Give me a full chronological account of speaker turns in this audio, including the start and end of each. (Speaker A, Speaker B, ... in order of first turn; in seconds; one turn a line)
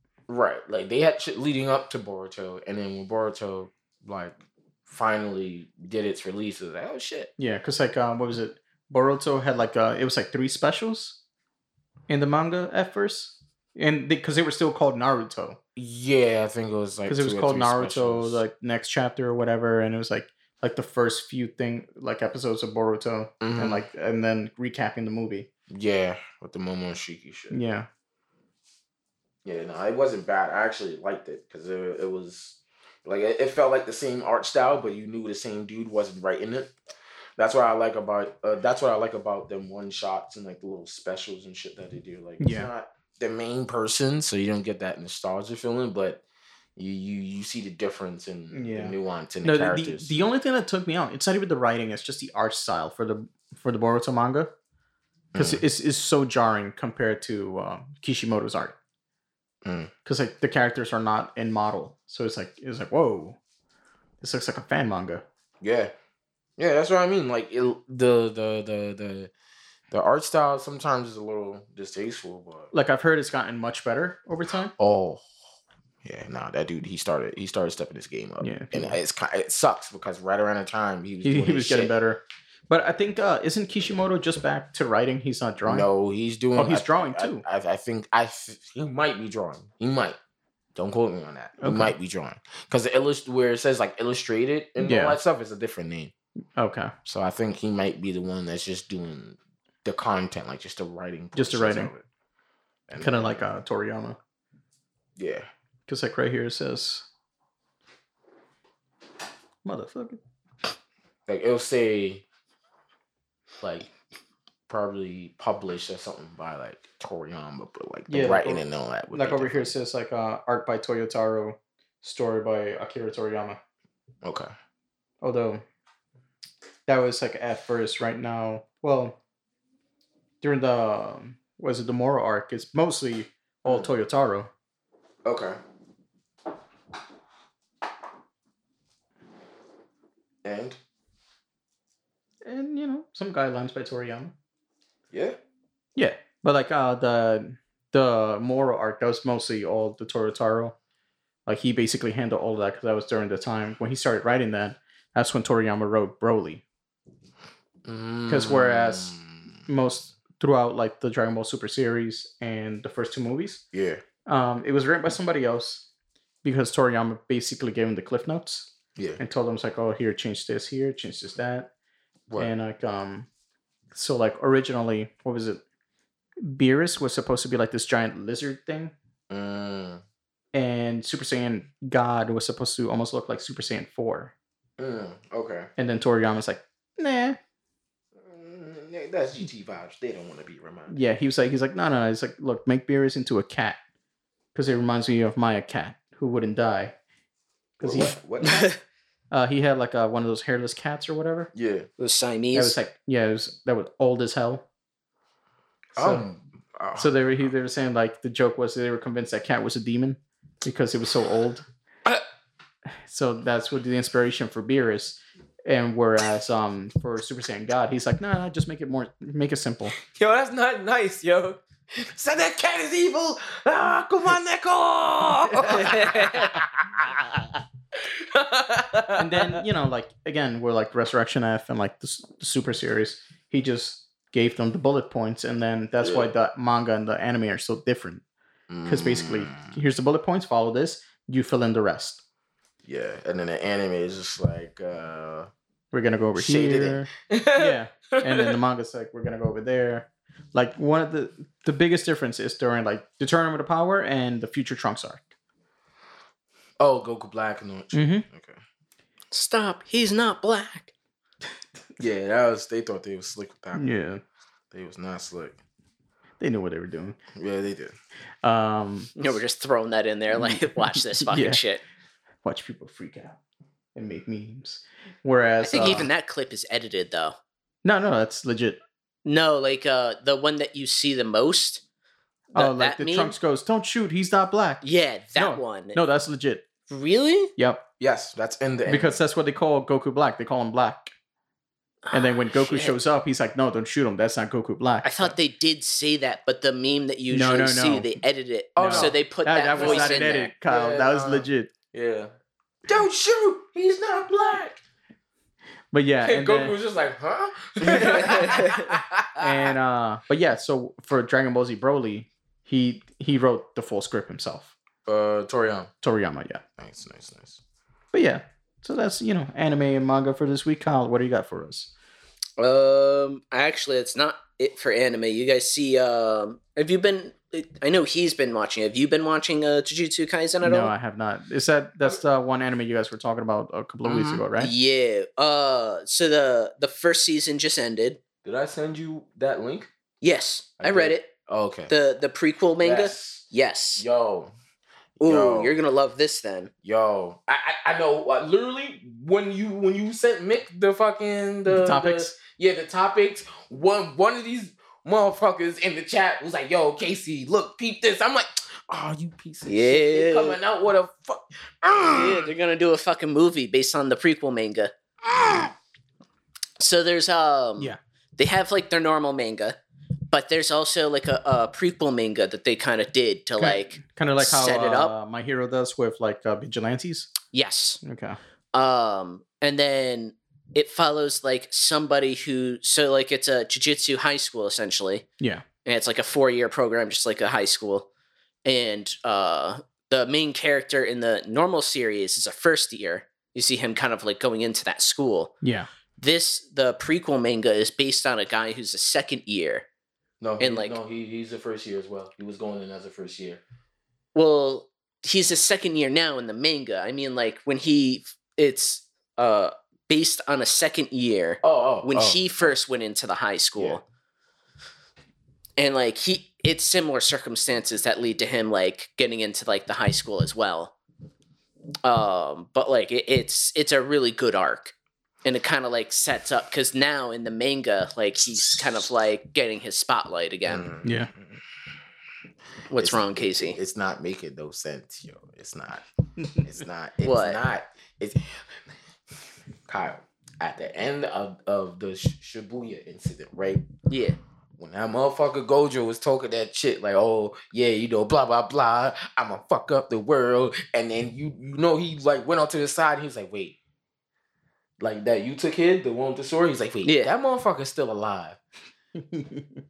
Speaker A: 0.3-7.3
Speaker B: 7.4-11.2
Speaker B: 12.1-15.6
Speaker A: 15.8-18.4
Speaker B: 17.1-25.5
Speaker A: 23.4-23.8
Speaker A: 25.7-27.6
Speaker B: 27.5-27.9
Speaker A: 29.4-36.7
Speaker A: 37.4-46.2
Speaker B: 42.4-42.7
Speaker A: 46.8-50.1
Speaker B: 48.5-54.5
Speaker A: 55.3-55.6
Speaker B: 55.3-58.8
Speaker A: 59.6-59.9
Speaker B: 60.0-63.4
Speaker B: 64.2-65.2
Speaker A: 65.6-65.9
Speaker A: 66.6-69.3
Speaker A: 69.9-72.7
Speaker B: 72.7-74.7
Speaker A: 74.8-75.2
Speaker A: 76.0-81.9
Speaker B: 78.4-79.0
Speaker B: 81.2-85.9
Speaker A: 85.7-90.2
Speaker B: 86.5-87.4
Speaker A: 90.7-96.1
Speaker B: 91.6-91.9
Speaker B: 94.8-95.2
Speaker B: 96.6-96.9
Speaker A: 97.0-102.0
Speaker B: 101.3-101.9
Speaker A: 102.9-103.4
Speaker B: 103.0-104.2
Speaker A: 105.2-105.5
Speaker B: 105.9-107.0
Speaker B: 109.6-110.2
Speaker A: 111.3-112.2
Speaker A: 113.6-113.9
Speaker A: 114.7-119.7
Speaker B: 118.1-123.6
Speaker A: 124.2-124.5
Speaker B: 125.2-125.6
Speaker B: 126.9-129.2
Speaker B: 130.4-134.5
Speaker A: 133.6-133.9
Speaker A: 135.2-135.6
Speaker A: 140.4-140.8
Speaker B: 142.4-144.3
Speaker A: 145.1-145.4
Speaker B: 145.9-150.7
Speaker B: 151.4-156.6
Speaker A: 157.8-159.6
Speaker B: 158.3-163.6
Speaker A: 163.7-164.0
Speaker B: 164.2-165.9
Speaker B: 166.4-171.7
Speaker B: 172.4-173.3
Speaker B: 173.9-175.6
Speaker B: 176.4-178.9
Speaker A: 179.3-180.0
Speaker B: 180.5-184.3
Speaker A: 184.8-185.7
Speaker B: 185.8-187.4
Speaker A: 188.2-191.0
Speaker B: 190.9-193.8
Speaker B: 194.5-196.9
Speaker B: 197.8-198.2
Speaker A: 197.8-198.7
Speaker C: 198.4-198.8
Speaker B: 199.3-201.5
Speaker A: 201.5-201.9
Speaker C: 202.0-202.8
Speaker B: 202.5-204.6
Speaker B: 205.9-206.3
Speaker A: 205.9-207.1
Speaker B: 206.9-211.6
Speaker B: 213.1-220.0
Speaker A: 220.0-229.6
Speaker C: 225.8-226.5
Speaker B: 229.1-238.2
Speaker A: 236.0-236.3
Speaker A: 238.7-239.8
Speaker B: 238.8-242.2
Speaker A: 242.8-245.5
Speaker B: 245.9-255.3
Speaker A: 246.3-248.6
Speaker A: 256.8-258.6
Speaker B: 257.9-258.2
Speaker C: 259.3-260.9
Speaker A: 262.0-263.9
Speaker B: 263.7-264.2
Speaker A: 264.7-265.6
Speaker B: 266.4-267.2
Speaker A: 267.3-267.9
Speaker B: 268.4-269.1
Speaker C: 269.2-271.8
Speaker B: 270.3-271.6
Speaker B: 272.4-273.4
Speaker B: 273.9-276.1
Speaker C: 275.6-277.4
Speaker B: 277.8-278.8
Speaker C: 279.2-281.8
Speaker C: 282.5-283.4
Speaker B: 282.5-284.8
Speaker C: 284.8-286.0
Speaker B: 285.3-286.6
Speaker C: 286.9-287.5
Speaker B: 287.6-287.8
Speaker A: 288.0-289.2
Speaker B: 288.8-291.1
Speaker C: 292.0-292.9
Speaker B: 292.1-295.3
Speaker C: 295.0-300.5
Speaker B: 297.3-298.1
Speaker A: 298.7-299.2
Speaker B: 298.8-301.7
Speaker A: 299.7-302.3
Speaker A: 302.9-304.8
Speaker B: 305.9-306.8
Speaker A: 306.2-309.7
Speaker B: 307.9-308.4
Speaker C: 308.3-308.6
Speaker B: 309.4-314.7
Speaker A: 315.1-315.9
Speaker B: 316.0-316.6
Speaker A: 316.8-317.6
Speaker B: 318.1-321.9
Speaker C: 322.6-330.9
Speaker B: 330.6-334.7
Speaker A: 334.0-334.4
Speaker C: 334.5-338.2
Speaker A: 338.4-339.9
Speaker C: 340.2-341.3
Speaker A: 340.8-341.9
Speaker C: 341.9-344.0
Speaker A: 342.8-344.5
Speaker C: 345.2-346.7
Speaker A: 345.2-345.7
Speaker A: 346.8-362.5
Speaker B: 351.7-352.4
Speaker C: 359.6-360.6
Speaker C: 362.1-364.9
Speaker A: 365.3-365.7
Speaker C: 366.8-369.8
Speaker C: 370.3-375.1
Speaker B: 373.6-377.3
Speaker C: 377.5-378.0
Speaker B: 378.0-378.4
Speaker C: 378.7-385.2
Speaker C: 385.8-388.1
Speaker C: 388.6-395.5
Speaker B: 395.6-395.9
Speaker C: 396.2-399.9
Speaker A: 400.4-403.6
Speaker C: 400.6-401.0
Speaker C: 404.3-414.0
Speaker A: 411.6-412.7
Speaker C: 415.8-420.9
Speaker C: 422.0-424.9
Speaker C: 425.4-430.9
Speaker A: 430.7-431.5
Speaker B: 431.0-431.3
Speaker C: 432.9-433.8
Speaker A: 433.0-436.0
Speaker A: 436.6-438.8
Speaker C: 437.2-437.6
Speaker A: 439.9-443.9
Speaker C: 444.1-444.4
Speaker A: 444.8-453.8
Speaker A: 455.0-458.6
Speaker C: 457.0-457.3
Speaker B: 459.2-459.6